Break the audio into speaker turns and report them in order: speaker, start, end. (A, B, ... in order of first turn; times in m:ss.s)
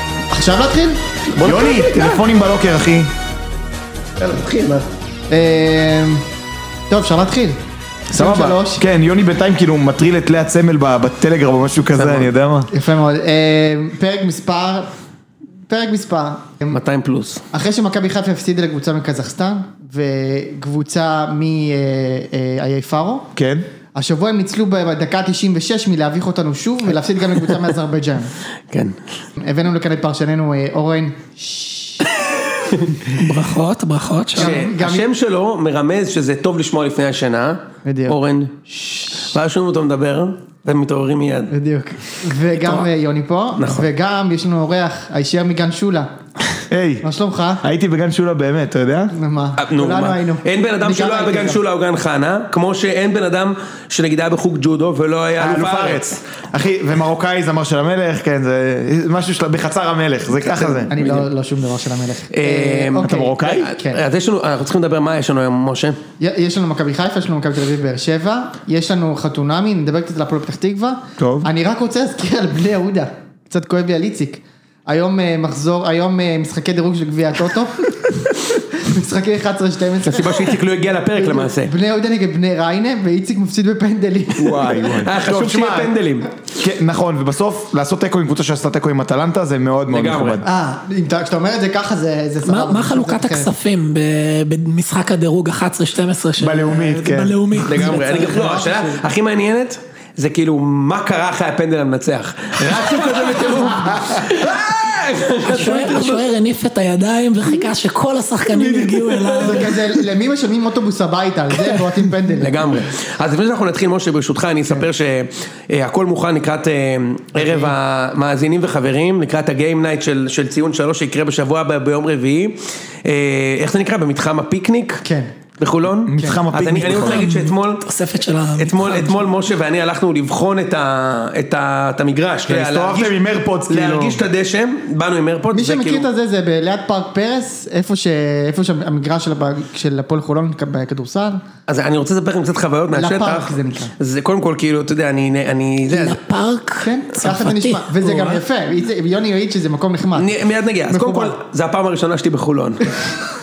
0:00.3-0:01.0 A
0:01.3-0:02.2 B
0:01.4-0:03.1 C
0:04.2-0:04.9 B
0:05.3-0:06.2 A
0:06.9-0:07.6 A
0:08.1-0:08.8 A
0:08.1-0:12.7 C
0:12.0-0:12.3 B
0:12.7-0:14.9 A
0:15.7-0:16.8 A
0:16.7-0:17.4 B
0:17.5-0:23.3 A
0:23.4-0:23.6 C
0:23.9-0:28.3 A
0:28.7-0:29.0 B
0:29.4-0:32.2 A
0:33.2-0:34.6 D
0:34.3-0:35.1 A
0:34.4-0:41.5 B
0:37.8-0:38.2 A
0:38.7-0:39.1 A
0:41.5-0:46.1 A
0:43.6-0:43.8 B
0:46.7-0:47.0 C
0:47.0-0:47.6 A
0:47.6-0:49.1 C
0:49.1-0:51.6 A
0:49.6-0:56.1 B
0:55.4-1:01.1 C
1:00.8-1:04.0 A
1:01.0-1:01.2 B
1:02.3-1:06.0 B
1:03.0-1:03.7 C
1:06.2-1:20.6 A
1:11.2-1:11.5 C
1:20.0-1:21.7 B
1:21.1-1:25.0 A
1:24.4-1:25.9 C
1:24.5-1:26.3 B
1:26.6-1:30.4 C
1:29.9-1:30.4 B
1:30.4-1:33.5 A
1:32.4-1:38.4 D
1:36.4-1:37.4 C
1:37.6-1:46.3 B
1:37.8-1:39.0 A
1:43.0-1:44.2 A
1:45.4-1:49.7 D
1:48.6-1:49.7 B
1:49.3-1:52.6 A
1:52.4-2:05.0 B
1:57.4-1:57.7 A
2:05.0-2:05.3 A
2:05.6-2:07.8 B
2:06.1-2:07.2 C
2:06.2-2:06.4 A
2:06.8-2:09.2 D
2:08.6-2:13.2 B
2:12.5-2:14.2 C
2:13.7-2:16.1 B
2:15.5-2:21.4 A
2:21.7-2:26.2 B
2:22.9-2:23.9 A
2:25.9-2:28.4 D
2:26.8-2:30.3 A
2:30.1-2:33.1 B
2:30.9-2:31.4 A